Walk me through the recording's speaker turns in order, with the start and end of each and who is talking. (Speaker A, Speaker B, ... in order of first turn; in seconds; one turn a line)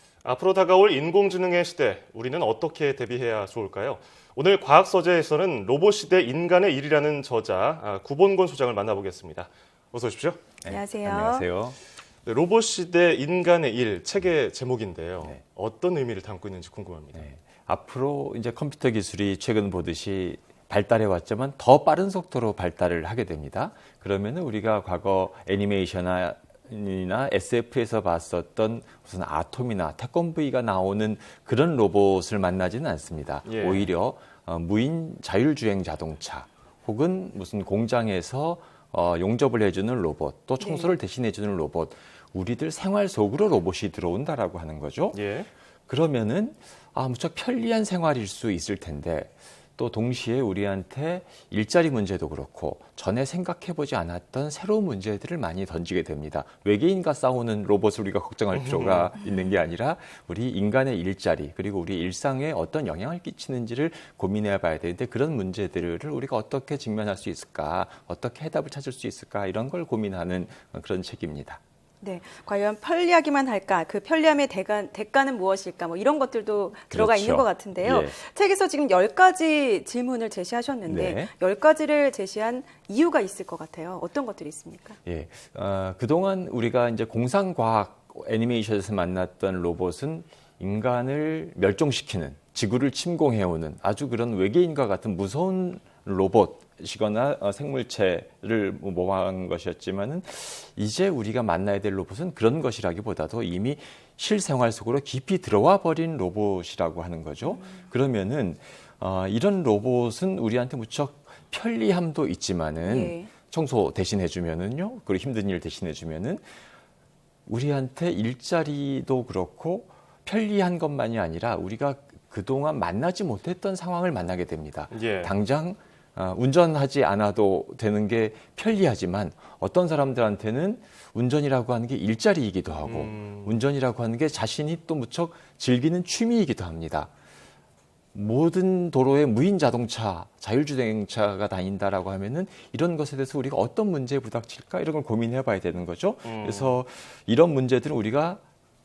Speaker A: 0.2-10.4
Speaker B: 10.6-11.8
Speaker C: 10.7-11.5
Speaker A: 12.2-17.2
Speaker B: 17.1-45.2
Speaker A: 33.4-33.9
Speaker C: 40.6-40.9
Speaker A: 45.1-45.5
Speaker B: 45.9-71.6
Speaker A: 58.5-59.1
Speaker C: 72.0-85.0
Speaker B: 76.9-78.2
Speaker B: 80.8-81.3
Speaker B: 85.0-116.4
Speaker C: 107.5-107.7
Speaker C: 112.8-113.3
Speaker B: 117.5-137.1
Speaker A: 124.9-125.3
Speaker A: 132.8-133.6
Speaker B: 138.1-148.4
Speaker A: 146.2-146.8